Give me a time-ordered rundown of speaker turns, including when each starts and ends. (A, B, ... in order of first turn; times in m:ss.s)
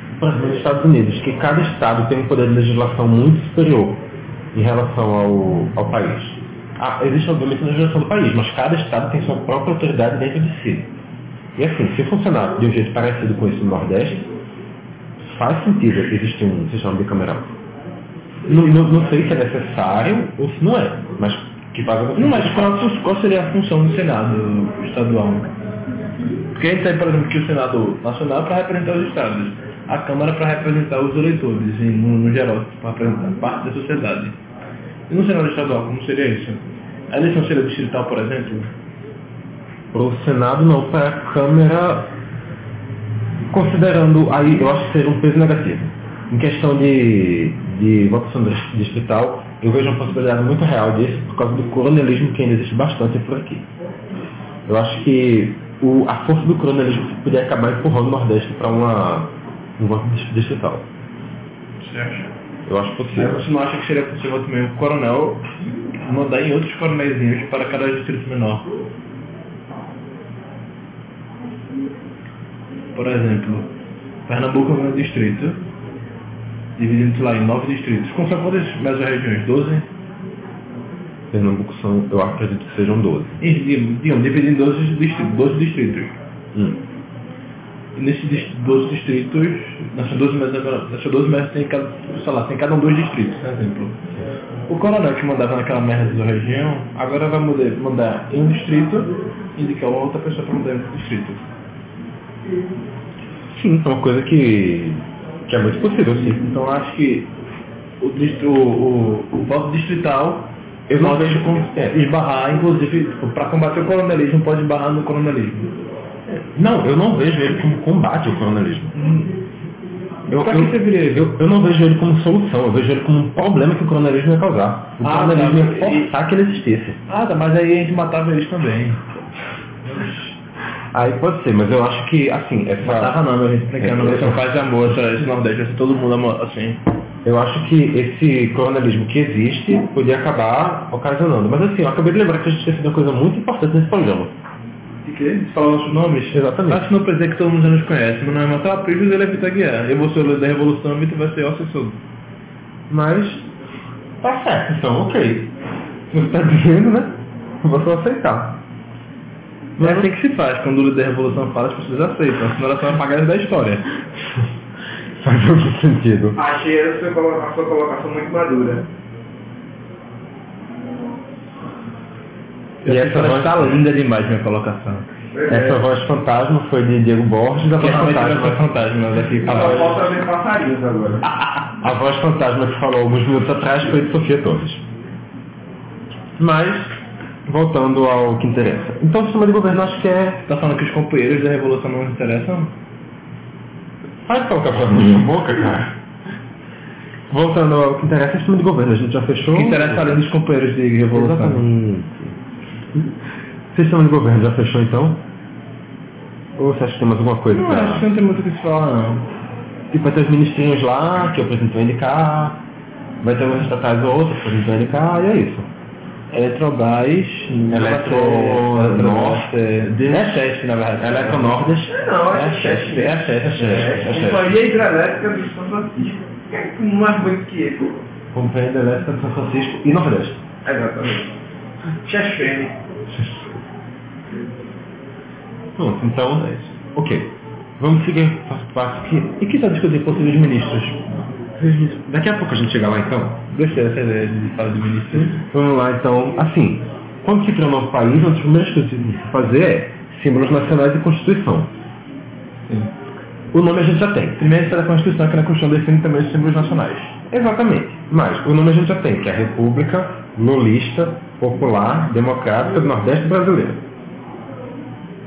0:00.2-0:10.9 A
0:11.6-0:14.3 A
0:15.2-0:17.5 A
0:18.5-0:22.9 A
0:22.2-0:25.5 B
0:26.6-0:34.4 B
0:35.1-0:38.7 B
0:39.9-0:42.1 A
0:43.5-0:53.7 A
0:54.7-1:00.9 A
1:01.8-1:02.3 B
1:02.7-1:03.4 A
1:03.1-1:05.5 B
1:06.1-1:08.7 B
1:13.0-1:13.7 B
1:14.3-1:15.6 B
1:16.8-1:19.9 B
1:21.3-1:23.4 A
1:23.4-1:26.2 B
1:26.5-1:26.8 A
1:28.0-1:34.0 B
1:34.7-1:41.4 B
1:43.5-1:46.4 A
1:46.4-1:47.3 B
1:48.0-1:55.7 B
1:50.9-1:52.0 A
1:56.5-1:58.9 A
1:59.0-1:59.3 B
2:00.3-2:07.0 A
2:00.3-2:01.3 B
2:05.0-2:06.1 B
2:07.1-2:09.0 B
2:09.9-2:10.2 B
2:10.9-2:13.2 A
2:12.8-2:16.8 B
2:13.8-2:14.4 A
2:17.2-2:24.3 A
2:25.0-2:32.0 B
2:26.3-2:26.9 A
2:32.9-2:33.5 A
2:34.2-2:35.5 A
2:36.1-2:38.6 A
2:39.8-2:40.1 A
2:39.8-2:43.9 B
2:45.2-2:46.4 A
2:46.4-2:48.9 C
2:52.8-2:55.1 B
2:52.8-2:53.8 A
2:55.3-2:55.8 C
2:55.5-2:58.7 A
2:57.7-3:00.0 B
2:59.4-3:01.2 C
2:59.5-2:59.8 A
3:01.8-3:04.8 A
3:06.4-3:07.0 A
3:07.5-3:10.4 A
3:10.5-3:12.7 B
3:14.3-3:16.0 A
3:17.3-3:20.2 A
3:19.5-3:21.6 B
3:21.1-3:22.4 A
3:23.7-3:25.2 A
3:26.6-3:28.1 A
3:27.5-3:29.3 B
3:29.9-3:32.6 A
3:33.2-3:35.7 A
3:36.3-3:41.7 B
3:37.7-3:42.0 A
3:41.9-3:48.0 C
3:42.3-3:44.0 B
3:43.4-3:44.6 A
3:48.3-3:50.4 A
3:50.6-3:51.3 C
3:52.0-3:52.8 C
3:53.1-3:53.5 A
3:55.8-3:59.4 A
3:59.4-4:01.0 B
4:01.6-4:03.4 A
4:03.5-4:05.4 B
4:05.4-4:11.7 A
4:13.5-4:14.4 A
4:14.4-4:17.2 B
4:17.3-4:23.8 A